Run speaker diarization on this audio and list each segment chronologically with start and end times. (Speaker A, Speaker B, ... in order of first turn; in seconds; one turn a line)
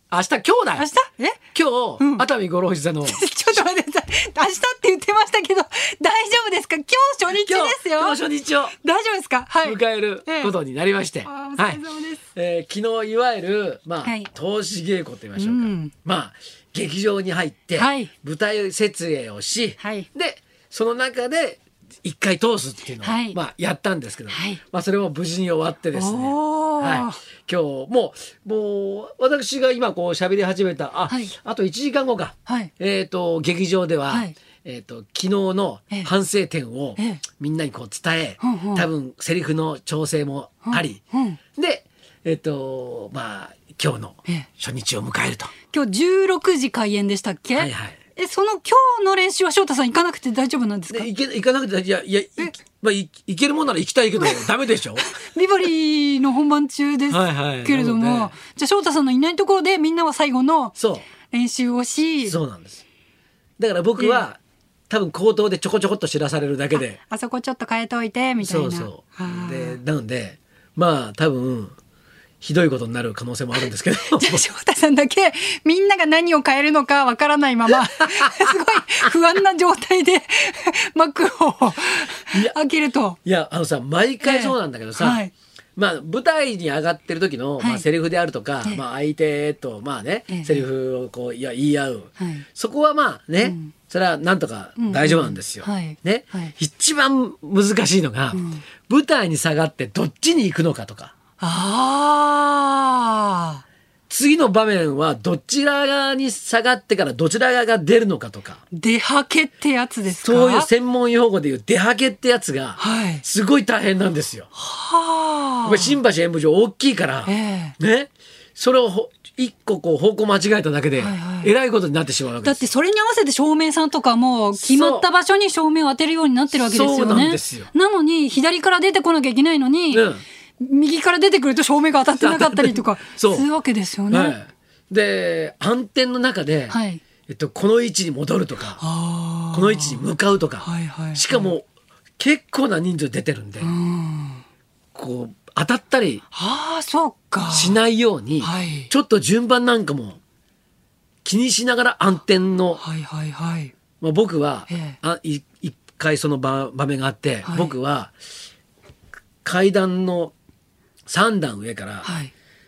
Speaker A: 0.1-0.9
Speaker B: 0.8-1.4
Speaker A: 1.5-3.6
Speaker B: 2.0-2.3
Speaker B: 3.0-8.2
Speaker A: 7.3-8.8
Speaker B: 8.8-10.5
Speaker A: 9.6-11.8
Speaker B: 11.3-12.2
Speaker A: 12.3-41.0
Speaker B: 14.0-14.3
Speaker B: 15.4-15.9
Speaker B: 17.8-18.1
Speaker B: 19.8-20.1
Speaker B: 23.0-23.4
Speaker B: 24.3-24.6
Speaker B: 25.9-27.2
Speaker B: 31.1-31.3
Speaker B: 34.1-34.4
Speaker B: 37.0-37.2
Speaker B: 38.4-38.9
Speaker B: 40.7-41.4
Speaker A: 41.6-45.5
Speaker B: 45.7-51.1
Speaker A: 47.6-48.0
Speaker A: 50.9-55.1
Speaker B: 54.2-62.4
Speaker A: 57.1-58.4
Speaker A: 60.8-61.1
Speaker A: 62.2-62.9
Speaker A: 63.6-64.4
Speaker B: 64.0-64.3
Speaker A: 64.9-67.0
Speaker B: 67.0-69.8
Speaker A: 68.4-71.8
Speaker A: 72.4-74.4
Speaker B: 74.1-83.2
Speaker A: 78.0-78.5
Speaker A: 83.2-85.2
Speaker B: 84.2-85.3
Speaker A: 85.8-101.1
Speaker B: 87.6-87.8
Speaker B: 90.3-90.6
Speaker B: 92.2-92.5
Speaker B: 93.4-93.7
Speaker B: 94.8-96.5
Speaker B: 98.3-98.6
Speaker B: 101.4-103.6
Speaker A: 104.1-108.6
Speaker B: 108.7-110.7
Speaker A: 110.1-114.5
Speaker B: 112.8-113.2
Speaker B: 114.5-116.0
Speaker A: 115.6-122.6
Speaker B: 117.3-117.8
Speaker B: 121.0-121.5
Speaker B: 122.4-130.1
Speaker A: 124.6-125.1
Speaker A: 126.5-127.7
Speaker A: 129.9-130.2
Speaker B: 130.6-134.4
Speaker A: 132.2-133.5
Speaker A: 134.1-138.8
Speaker B: 136.7-137.0
Speaker B: 138.8-140.0
Speaker A: 139.5-141.7
Speaker B: 140.6-141.5
Speaker A: 142.2-143.7
Speaker B: 143.6-144.4
Speaker A: 144.9-146.2
Speaker B: 146.3-147.8
Speaker A: 147.5-150.2
Speaker B: 148.4-148.9
Speaker A: 151.2-152.8
Speaker B: 152.8-153.7
Speaker A: 154.0-158.1
Speaker B: 154.7-155.0
Speaker B: 157.5-157.7
Speaker A: 159.4-160.3
Speaker A: 161.1-162.1
Speaker B: 162.0-162.3